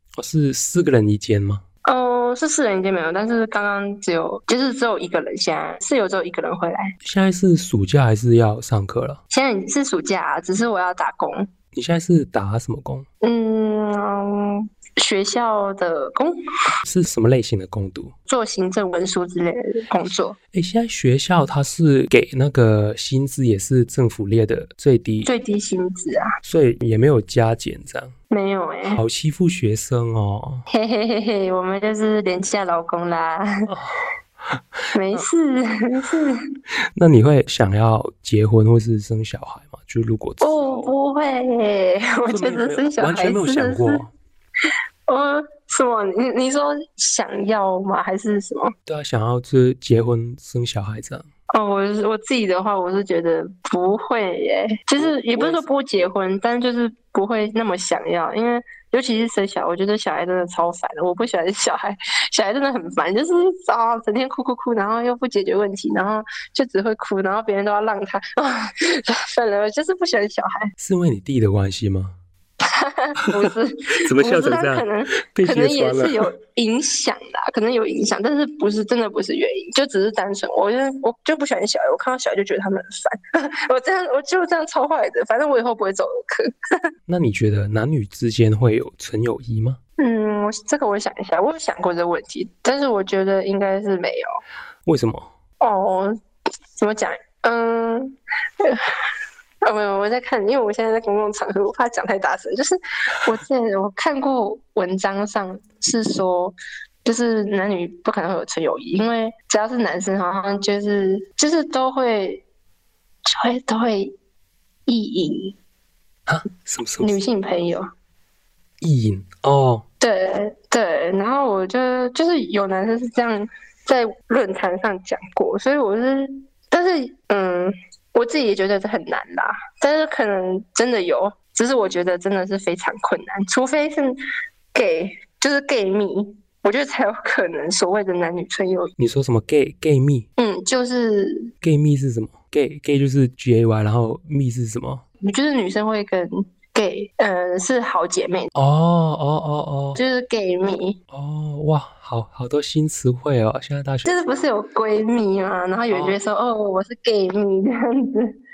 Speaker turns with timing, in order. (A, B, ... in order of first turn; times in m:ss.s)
0:00.2-0:01.6 A
0:01.8-0:07.0 B
0:07.0-0:09.2 A
0:09.3-0:11.5 B
0:11.7-0:13.0 A
0:13.2-0:16.4 B
0:16.8-0:18.1 A
0:18.3-0:20.4 B
0:20.5-0:25.3 A
0:25.2-0:26.3 B
0:26.4-0:28.1 A
0:28.3-0:29.0 B
0:28.9-0:30.6 A
0:30.7-0:33.7 B
0:33.7-0:34.1 A
0:34.9-0:36.4 B
0:37.0-0:40.9 A
0:40.4-0:44.0 B
0:42.3-0:44.1 A
0:45.1-0:48.7 B
0:48.8-0:51.3 A
0:51.5-1:10.7 B
0:55.0-0:55.6 A
1:10.8-1:12.2 A
1:12.6-1:26.8 B
1:14.0-1:16.3 A
1:27.1-1:29.8 A
1:30.0-1:34.4 B
1:34.8-1:35.3 A
1:35.6-1:36.1 B
1:36.8-1:39.0 B
1:39.6-1:52.4 B
1:53.3-1:54.1 B
1:54.9-1:55.6 B
1:56.3-1:57.2 A
1:57.0-1:57.9 B
1:58.8-1:59.8 A
2:00.0-2:14.2 B
2:14.7-2:18.9 B
2:19.0-2:20.2 A
2:20.4-2:21.5 B
2:21.6-2:25.0 A
2:25.2-2:28.5 B
2:28.5-2:30.0 A
2:29.9-2:31.0 B
2:31.1-2:34.4 A
2:34.0-2:38.3 B
2:35.9-2:36.2 A